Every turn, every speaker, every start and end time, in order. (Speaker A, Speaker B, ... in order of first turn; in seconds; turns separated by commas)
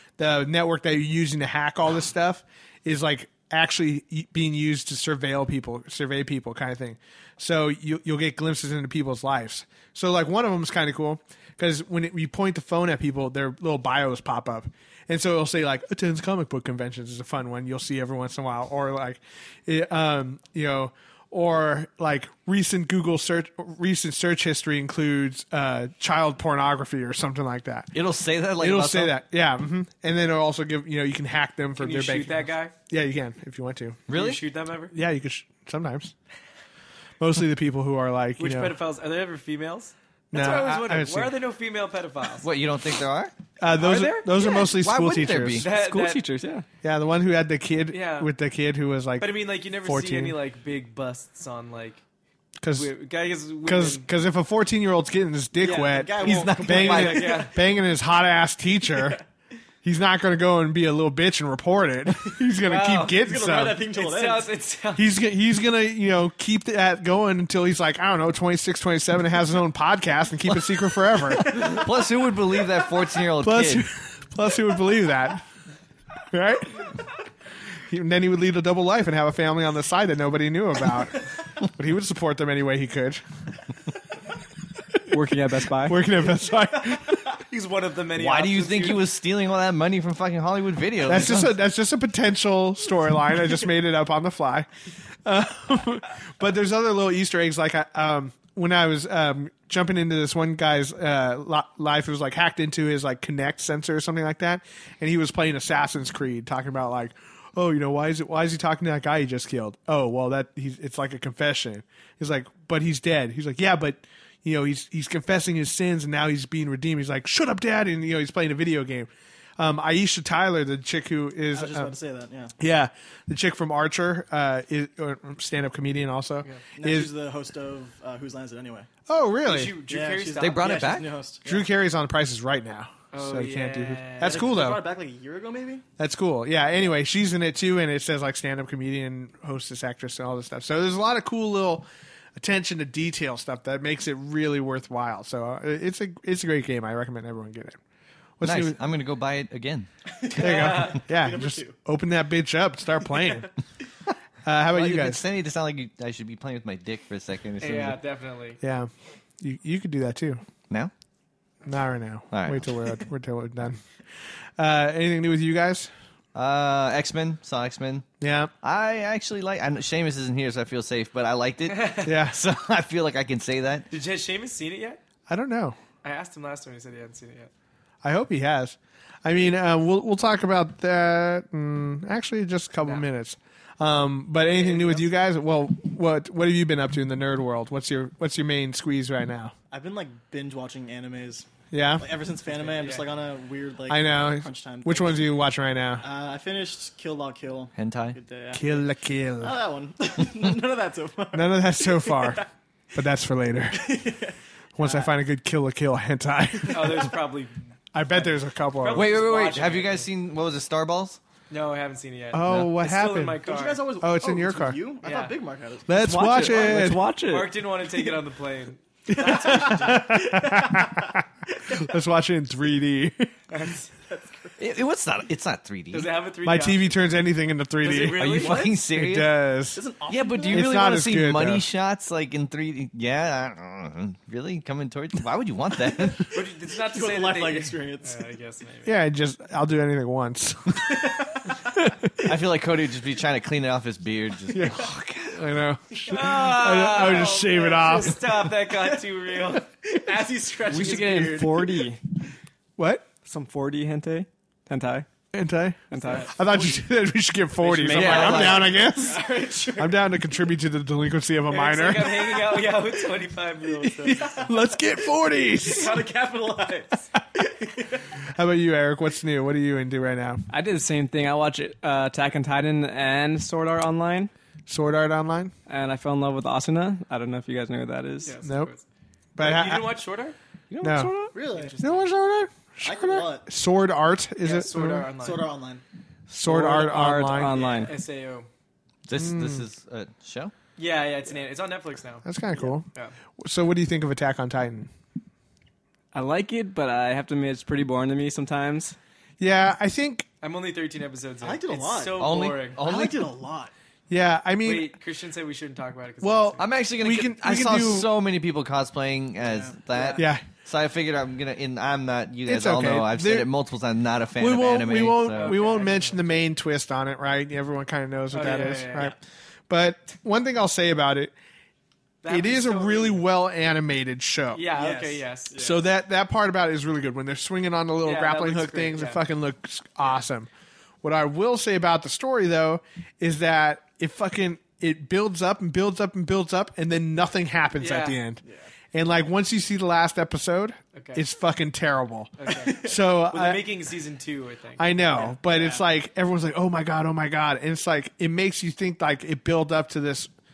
Speaker A: 0.2-27.9, Speaker B: 27.9-29.1, Speaker A: 28.6-34.1, Speaker C: 31.8-32.7, Speaker B: 34.1-34.4, Speaker C: 34.1-34.9, Speaker A: 34.9-36.1, Speaker A: 37.2-38.7, Speaker C: 38.4-42.5, Speaker A: 40.3-41.4, Speaker B: 42.4-43.3, Speaker A: 43.6-45.7, Speaker C: 43.8-44.6, Speaker B: 44.6-45.7, Speaker C: 45.6-46.3, Speaker D: 45.7-46.6, Speaker A: 46.8-50.4, Speaker C: 47.9-48.3, Speaker C: 49.2-52.0, Speaker A: 52.6-52.9, Speaker C: 52.7-54.1, Speaker A: 53.6-59.2, Speaker C: 55.6-56.0, Speaker E: 55.6-57.5, Speaker B: 56.2-57.2, Speaker C: 56.6-57.6, Speaker A: 59.8-63.8, Speaker C: 62.6-63.2, Speaker E: 63.0-64.5, Speaker C: 63.9-65.1, Speaker A: 65.0-71.8, Speaker B: 71.2-73.8, Speaker A: 73.4-75.5, Speaker A: 76.3-76.9, Speaker A: 77.9-83.2, Speaker D: 85.1-86.0, Speaker A: 85.8-87.3, Speaker C: 87.5-89.1, Speaker B: 88.2-91.5, Speaker A: 91.0-94.7, Speaker A: 95.2-122.0, Speaker E: 121.5-122.5, Speaker A: 122.6-127.1, Speaker E: 126.8-128.9, Speaker A: 129.1-129.8, Speaker C: 129.4-131.0, Speaker E: 129.9-131.7, Speaker B: 130.4-131.1, Speaker A: 131.4-134.8, Speaker C: 133.1-134.5, Speaker E: 134.2-135.8, Speaker A: 136.0-147.8, Speaker A: 148.4-148.8, Speaker B: 148.4-149.9, Speaker E: 150.2-151.8, Speaker C: 150.3-151.0, Speaker A: 150.4-153.5, Speaker A: 154.4-155.2, Speaker B: 154.7-158.0, Speaker C: 157.6-158.6, Speaker A: 158.6-160.4, Speaker A: 161.7-163.8, Speaker B: 162.3-162.7, Speaker A: 164.6-165.9, Speaker B: 166.3-168.1, Speaker A: 168.2-168.5, Speaker B: 168.6-173.9, Speaker C: 171.7-172.2, Speaker A: 172.1-172.4, Speaker C: 173.9-175.0, Speaker A: 175.3-175.8, Speaker C: 176.0-177.5, Speaker A: 178.0-189.5, Speaker C: 184.4-185.1, Speaker E: 189.7-191.5, Speaker A: 191.7-192.1, Speaker E: 192.0-195.3, Speaker C: 192.5-193.1, Speaker A: 193.9-196.1, Speaker E: 196.0-198.8, Speaker B: 197.8-198.2, Speaker A: 198.5-199.6, Speaker E: 199.4-202.5, Speaker A: 201.3-203.8, Speaker E: 203.7-205.1, Speaker A: 204.8-207.1, Speaker C: 206.7-210.1, Speaker E: 206.7-207.0, Speaker A: 207.9-209.1, Speaker B: 208.9-211.2, Speaker C: 211.5-213.8, Speaker A: 212.3-213.4, Speaker E: 213.4-216.1, Speaker A: 214.0-214.8, Speaker C: 215.0-215.3, Speaker A: 215.9-217.1, Speaker D: 215.9-217.5, Speaker C: 216.5-220.0, Speaker A: 219.1-223.3, Speaker E: 219.1-221.1, Speaker C: 223.5-223.9, Speaker E: 224.1-224.6, Speaker B: 224.6-226.1, Speaker C: 225.9-227.0, Speaker A: 226.4-229.8, Speaker C: 227.8-228.7, Speaker B: 228.2-229.4, Speaker E: 229.8-230.9, Speaker B: 230.1-236.3, Speaker A: 230.5-231.7, Speaker E: 236.3-238.3, Speaker C: 236.3-238.9, Speaker A: 238.8-241.2, Speaker E: 240.9-241.3, Speaker B: 242.2-245.0, Speaker A: 244.5-248.2, Speaker C: 246.1-249.7, Speaker E: 247.0-247.8, Speaker E: 248.7-251.8, Speaker D: 250.7-252.0, Speaker A: 252.8-253.1, Speaker D: 253.2-255.1, Speaker A: 255.3-262.4, Speaker D: 255.9-256.3, Speaker E: 256.0-256.8, Speaker D: 257.6-258.6, Speaker B: 257.9-258.8, Speaker E: 258.2-260.0, Speaker C: 261.5-264.5, Speaker E: 262.3-262.8, Speaker A: 264.0-266.0, Speaker E: 264.0-264.5, Speaker E: 265.5-268.1, Speaker A: 268.3-270.4, Speaker D: 270.5-274.3, Speaker A: 274.7-275.5, Speaker D: 275.7-278.4, Speaker C: 278.2-278.8, Speaker A: 278.4-278.7, Speaker A: 279.4-280.0, Speaker C: 279.4-280.4, Speaker D: 280.7-281.4, Speaker A: 280.8-281.2, Speaker E: 281.3-281.8, Speaker C: 281.5-282.1, Speaker A: 281.8-285.1, Speaker E: 282.8-283.5, Speaker C: 284.4-285.5, Speaker E: 285.2-285.8, Speaker A: 286.3-287.8, Speaker D: 286.4-287.9, Speaker C: 287.4-288.5, Speaker B: 289.1-290.5, Speaker A: 289.2-289.6, Speaker C: 290.8-292.2, Speaker A: 292.2-292.9, Speaker A: 293.4-294.9, Speaker D: 296.1-299.0, Speaker A: 299.4-300.3, Speaker C: 300.4-302.8, Speaker E: 301.4-302.3, Speaker B: 302.2-303.3, Speaker E: 302.8-303.7, Speaker A: 304.1-304.9, Speaker C: 304.6-306.6, Speaker A: 306.2-308.1, Speaker B: 306.6-315.6, Speaker E: 309.4-310.2, Speaker A: 310.2-310.4, Speaker A: 312.5-313.5, Speaker A: 314.4-319.2, Speaker C: 315.3-316.2, Speaker C: 318.3-319.1, Speaker A: 319.7-321.3, Speaker C: 322.2-323.2, Speaker A: 322.3-324.7, Speaker C: 324.5-325.8, Speaker E: 324.7-325.7, Speaker A: 325.6-330.5, Speaker C: 328.0-329.2, Speaker A: 331.0-338.4, Speaker C: 337.8-338.2, Speaker A: 338.9-343.7, Speaker C: 340.9-341.2, Speaker C: 342.4-345.8, Speaker E: 342.6-342.9, Speaker A: 344.8-350.3